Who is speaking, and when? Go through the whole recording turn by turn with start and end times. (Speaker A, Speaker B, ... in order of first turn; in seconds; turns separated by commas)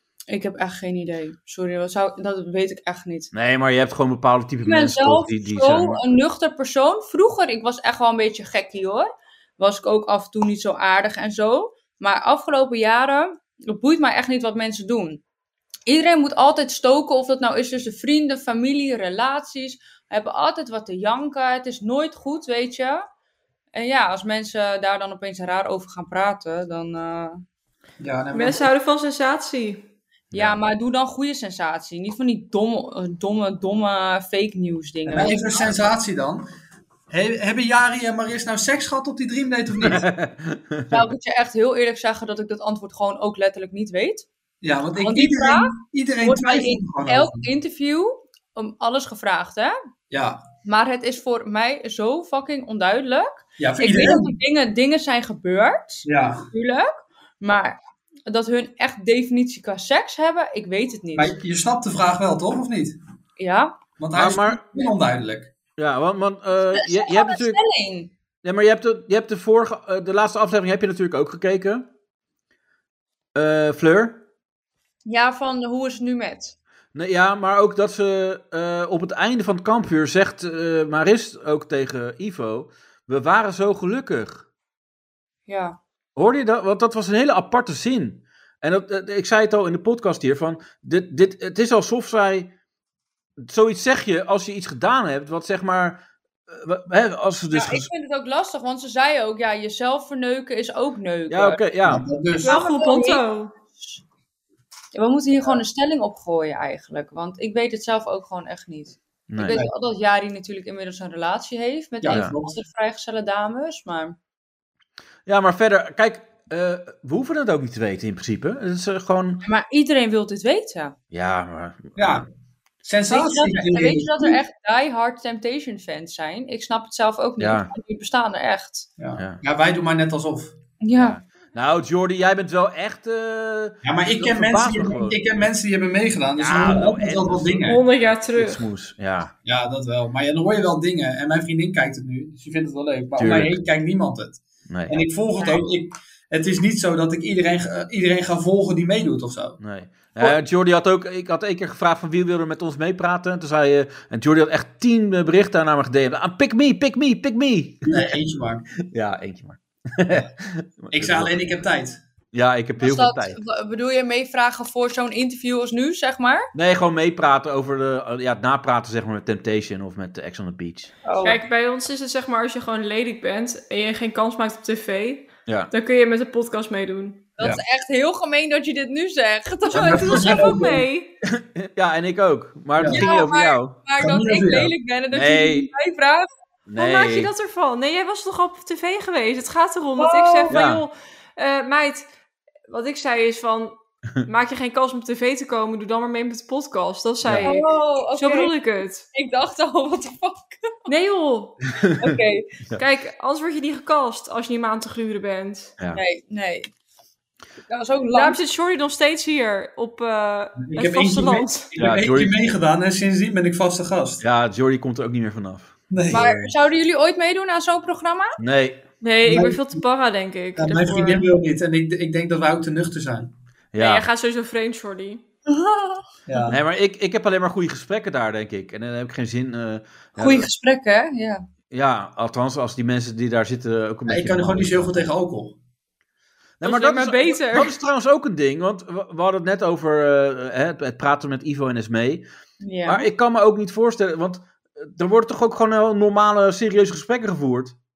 Speaker A: 0.3-3.3, Speaker B: 3.3-6.0, Speaker A: 4.6-15.2, Speaker A: 15.8-23.1, Speaker A: 23.7-27.4, Speaker C: 28.0-28.7, Speaker D: 28.3-29.8, Speaker B: 30.3-30.6, Speaker A: 30.3-35.7, Speaker C: 35.0-36.4, Speaker C: 37.1-40.0, Speaker B: 39.8-41.1, Speaker A: 40.9-44.2, Speaker C: 44.6-47.5, Speaker A: 45.0-49.7, Speaker C: 50.1-50.4, Speaker A: 50.6-61.3, Speaker C: 53.6-54.4, Speaker C: 56.0-56.5, Speaker C: 61.1-63.0, Speaker A: 63.4-63.7, Speaker C: 64.0-65.5, Speaker B: 64.1-64.7, Speaker B: 65.8-67.6, Speaker A: 66.7-68.1, Speaker B: 68.4-71.9, Speaker B: 73.3-74.2, Speaker A: 75.0-76.5, Speaker B: 76.9-84.5, Speaker A: 85.5-85.8, Speaker B: 86.2-92.5, Speaker B: 93.4-97.9, Speaker A: 97.5-101.6, Speaker B: 101.3-102.0, Speaker C: 101.8-102.6, Speaker A: 102.3-103.2, Speaker D: 102.4-103.5, Speaker A: 104.9-114.2, Speaker B: 109.3-109.6, Speaker C: 112.0-112.5, Speaker B: 112.1-112.3, Speaker B: 115.2-119.4, Speaker A: 119.4-120.9, Speaker B: 121.1-122.2, Speaker C: 122.0-122.2, Speaker C: 122.8-124.4, Speaker A: 123.1-128.9, Speaker B: 127.4-127.7, Speaker C: 129.0-130.5, Speaker B: 129.2-129.4, Speaker A: 130.8-131.2, Speaker B: 130.9-135.2, Speaker C: 133.8-137.8, Speaker B: 136.4-139.3, Speaker D: 137.6-138.6, Speaker C: 139.4-149.6, Speaker B: 143.2-143.6, Speaker B: 144.7-145.0, Speaker B: 149.6-158.0, Speaker C: 157.8-158.7, Speaker B: 158.9-161.4, Speaker C: 160.9-162.0, Speaker B: 162.3-163.4, Speaker A: 162.8-166.5, Speaker B: 166.5-170.9, Speaker A: 171.0-171.4, Speaker D: 171.2-177.2, Speaker A: 177.4-180.6, Speaker D: 179.7-181.1, Speaker C: 179.7-180.8, Speaker B: 181.2-183.8, Speaker C: 182.8-183.1, Speaker A: 182.8-186.3, Speaker C: 183.9-184.7, Speaker B: 185.1-185.7, Speaker B: 186.7-187.3, Speaker D: 186.8-192.1, Speaker A: 190.0-190.6, Speaker B: 190.5-190.8, Speaker D: 192.7-199.0, Speaker B: 197.2-197.5, Speaker A: 197.4-198.5, Speaker A: 199.1-200.9, Speaker D: 200.9-201.6, Speaker A: 202.0-202.5, Speaker D: 202.8-205.7, Speaker A: 205.9-206.7, Speaker A: 207.7-208.4, Speaker D: 208.1-211.7, Speaker C: 210.6-214.2, Speaker B: 211.8-212.3, Speaker B: 214.2-216.2, Speaker C: 215.9-216.5, Speaker A: 216.1-218.4, Speaker B: 218.4-218.8, Speaker D: 219.0-221.3, Speaker C: 219.2-219.8, Speaker C: 220.6-223.3, Speaker B: 223.7-224.1, Speaker D: 223.8-225.2, Speaker A: 225.5-226.5, Speaker C: 226.3-226.6, Speaker B: 226.5-230.5, Speaker A: 230.2-231.4, Speaker B: 231.7-234.9, Speaker C: 234.1-235.6, Speaker B: 236.6-242.2, Speaker A: 236.6-237.7, Speaker A: 242.6-243.0, Speaker B: 242.8-247.7